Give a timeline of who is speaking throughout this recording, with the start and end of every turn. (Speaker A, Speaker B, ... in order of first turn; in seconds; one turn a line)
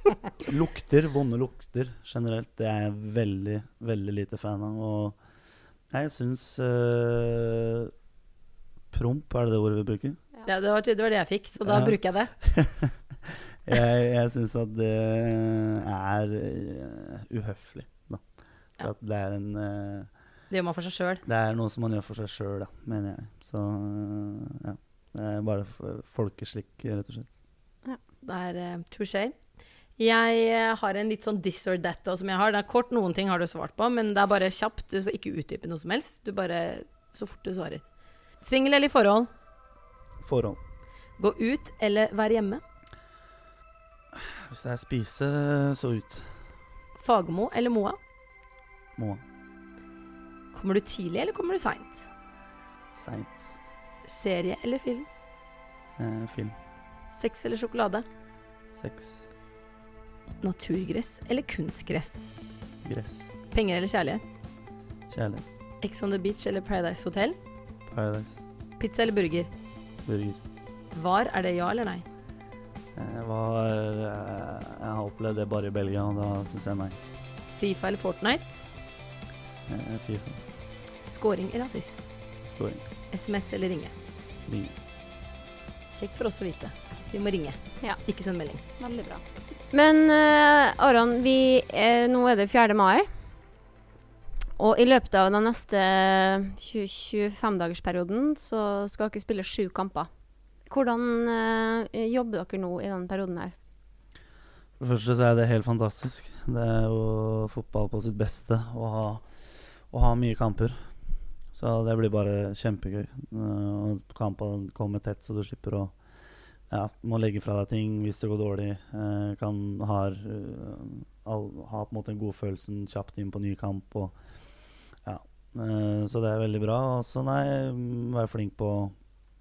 Speaker A: 0.4-5.2
Speaker A: 5.9-7.9
Speaker A: 8.9-10.2
Speaker B: 10.4-12.4
Speaker A: 11.6-20.1
Speaker B: 20.5-21.2
Speaker A: 21.2-27.3
Speaker B: 28.2-29.4
Speaker B: 30.0-37.8
Speaker B: 38.4-39.3
Speaker A: 40.2-40.6
Speaker B: 41.2-42.6
Speaker A: 44.1-46.5
Speaker B: 47.0-48.0
Speaker A: 49.0-49.2
Speaker B: 50.5-52.1
Speaker A: 52.9-53.6
Speaker B: 54.0-55.1
Speaker A: 56.0-56.6
Speaker B: 57.1-58.0
Speaker A: 58.7-59.3
Speaker B: 60.4-62.4
Speaker A: 62.8-63.3
Speaker B: 63.5-64.3
Speaker A: 65.1-65.5
Speaker B: 65.8-67.4
Speaker A: 67.9-68.4
Speaker B: 68.8-69.5
Speaker A: 70.0-70.4
Speaker B: 70.9-72.0
Speaker A: 72.9-77.0
Speaker B: 77.5-78.7
Speaker A: 79.7-80.4
Speaker B: 81.1-82.2
Speaker A: 82.5-82.8
Speaker B: 83.1-83.9
Speaker A: 84.5-84.7
Speaker B: 85.9-88.6
Speaker C: 88.8-93.1
Speaker C: 94.6-100.1
Speaker C: 100.6-103.5
Speaker A: 104.8-116.1
Speaker A: 116.6-129.1